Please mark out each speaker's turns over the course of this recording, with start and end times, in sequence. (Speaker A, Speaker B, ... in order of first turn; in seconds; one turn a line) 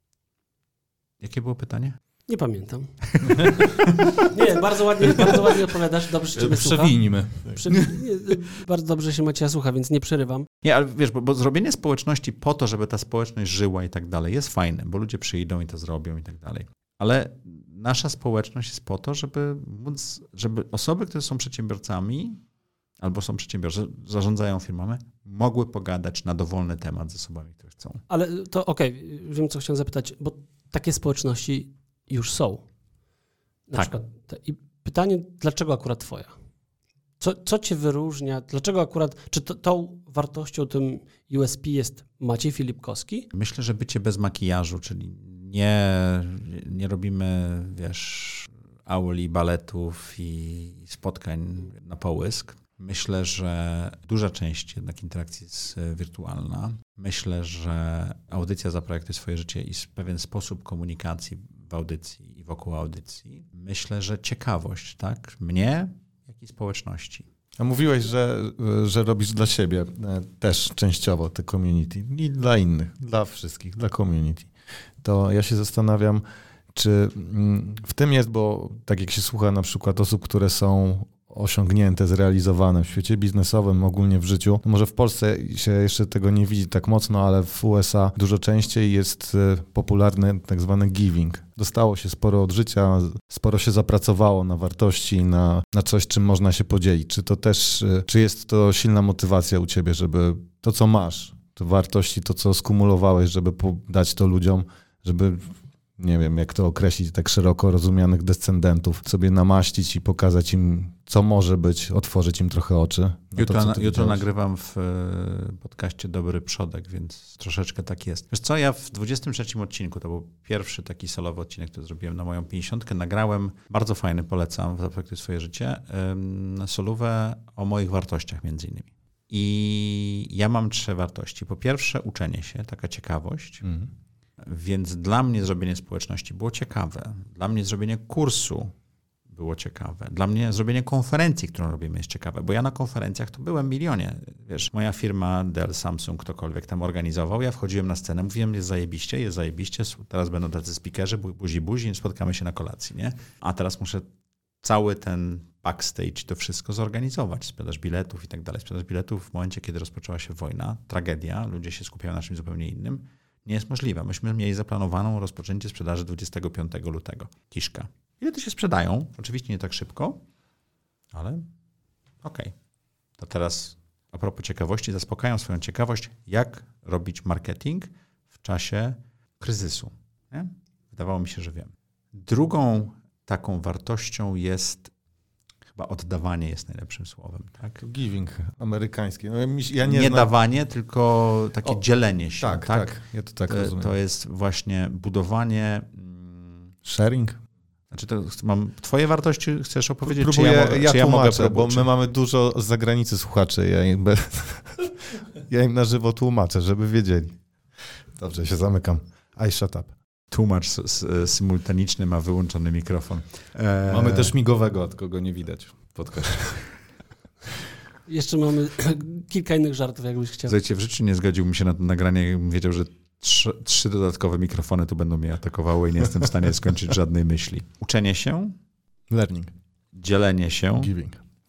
Speaker A: 1.2-2.0
Speaker B: 2.3-3.7
Speaker A: 3.1-4.1
Speaker B: 4.2-10.5
Speaker C: 6.3-8.0
Speaker A: 10.6-22.4
Speaker A: 23.0-28.0
Speaker B: 28.1-32.6
Speaker B: 33.7-36.3
Speaker B: 37.2-43.3
Speaker A: 43.3-67.2
Speaker D: 67.6-74.5
Speaker D: 75.0-76.2
Speaker D: 76.7-114.2
Speaker A: 113.4-133.7
Speaker A: 134.4-138.7
Speaker A: 139.3-154.1
Speaker A: 154.6-170.2
Speaker A: 171.1-171.5
Speaker A: 172.2-172.5
Speaker A: 173.2-184.9
Speaker A: 185.7-187.8
Speaker D: 187.8-190.3
Speaker A: 189.8-196.7
Speaker D: 192.4-193.9
Speaker D: 196.8-197.4
Speaker A: 197.9-201.9
Speaker D: 200.0-207.4
Speaker D: 208.1-209.9
Speaker A: 210.3-214.3
Speaker C: 213.9-216.7
Speaker B: 218.1-220.5
Speaker A: 220.5-228.5
Speaker D: 229.1-229.5
Speaker A: 229.9-230.9
Speaker D: 230.8-231.2